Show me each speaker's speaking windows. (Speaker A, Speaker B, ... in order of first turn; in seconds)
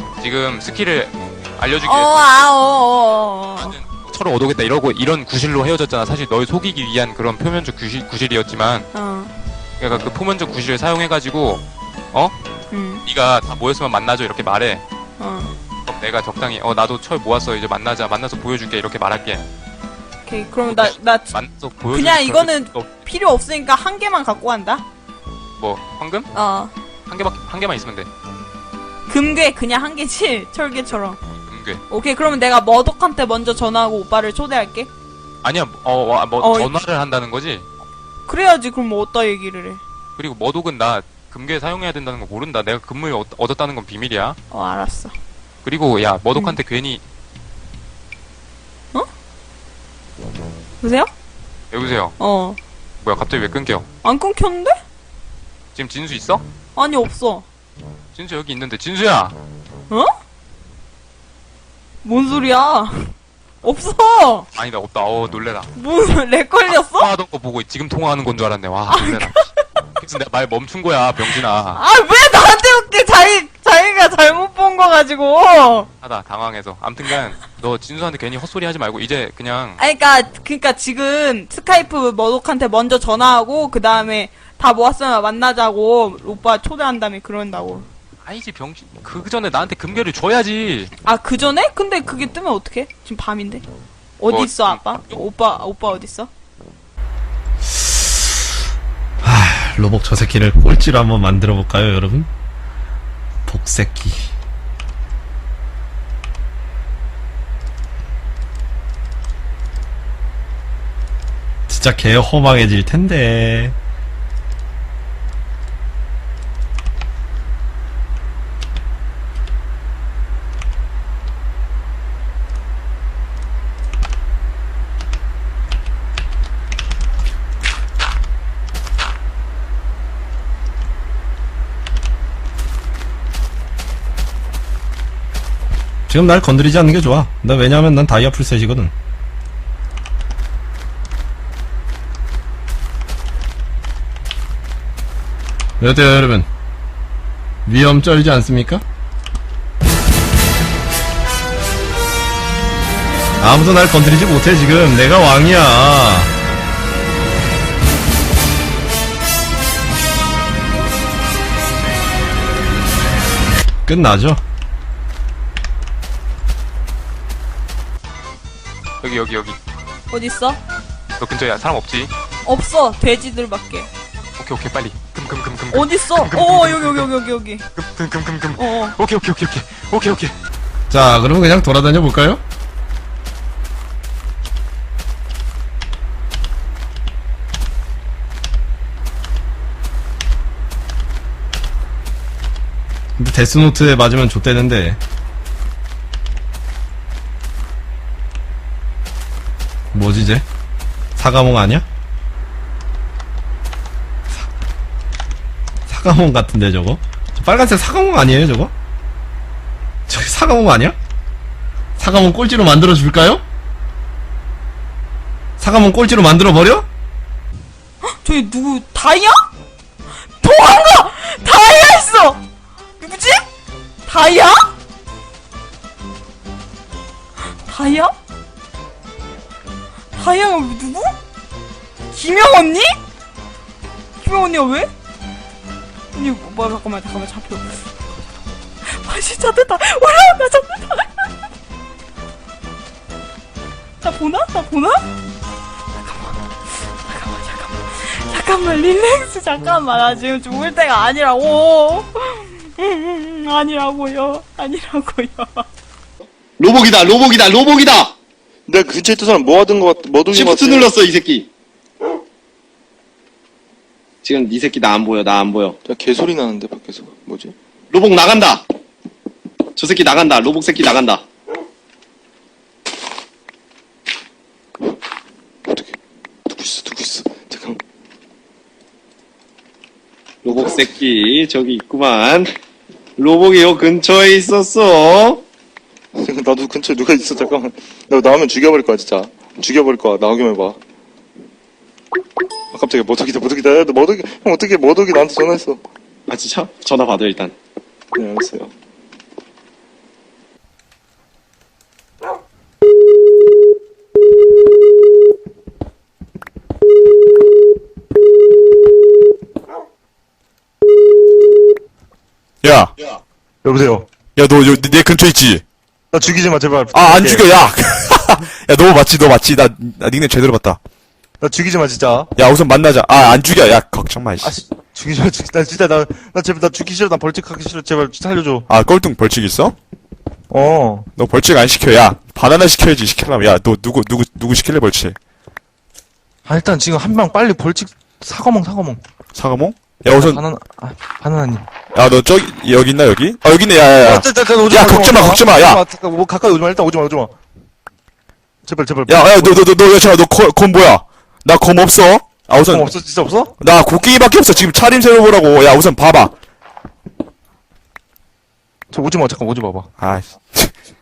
Speaker A: 0.2-2.2, 3.6-8.9, 9.8-12.3, 13.0-14.8, 15.9-19.5, 20.7-22.9, 25.6-26.3, 27.1-28.1, 31.5-31.8, 35.4-37.7, 40.2-44.4, 45.6-47.0, 51.7-52.2, 53.0-53.9, 55.8-56.4, 58.1-59.4, 64.5-65.7, 66.7-71.8, 76.0-79.8, 88.2-90.9, 94.3-95.2, 169.0-169.6, 171.2-172.1, 174.4-177.1, 177.7-180.3
Speaker B: 1.8-3.8, 8.9-9.4, 12.7-13.0, 15.2-15.5, 20.2-21.3, 21.9-24.8, 26.3-26.7, 29.1-31.2, 31.9-34.9, 36.4-36.7, 38.3-39.8, 44.5-45.1, 50.8-51.1, 52.2-52.6, 54.0-54.8, 56.8-57.5, 62.0-64.5, 65.7-67.1, 68.9-69.7, 71.3-75.9, 79.8-87.9, 91.0-93.6, 94.2-96.3, 170.1-170.6, 172.4-173.9, 175.7-177.7, 178.6-179.0, 218.1-219.5, 220.3-222.4, 223.0-223.4, 224.1-224.7, 227.5-228.1, 230.1-231.1, 232.1-232.9, 234.2-234.9, 236.1-237.9, 238.8-241.3, 244.0-245.0, 246.0-255.7
Speaker C: 97.8-98.2, 99.2-102.3, 103.5-104.3, 111.7-113.8, 136.1-138.9, 145.8-146.5, 147.7-148.8, 153.4-156.3, 163.9-164.4, 180.9-182.4, 193.2-195.0, 199.9-200.4, 201.2-201.8, 205.9-208.7, 210.1-211.0, 212.0-213.4, 215.6-216.9
Speaker D: 256.6-258.1, 260.3-261.5, 264.2-265.8, 267.9-268.6, 269.8-271.2, 280.4-282.5, 283.2-285.4, 296.3-297.5
Speaker E: 258.7-260.9, 265.9-267.5, 275.7-275.9, 276.5-277.8, 286.2-290.8, 292.7-295.8, 298.1-298.7, 313.6-314.1, 316.1-317.4, 321.4-322.3, 324.4-328.7, 330.5-331.1, 336.5-339.0, 340.2-341.7, 344.0-347.3, 348.6-349.6, 352.7-353.5, 358.9-359.9
Speaker F: 312.6-312.9, 314.4-315.6, 316.9-320.8, 322.4-324.5, 328.7-329.8, 331.2-335.1, 339.3-340.4, 341.9-345.8, 349.1-352.9, 353.6-356.3, 360.0-360.7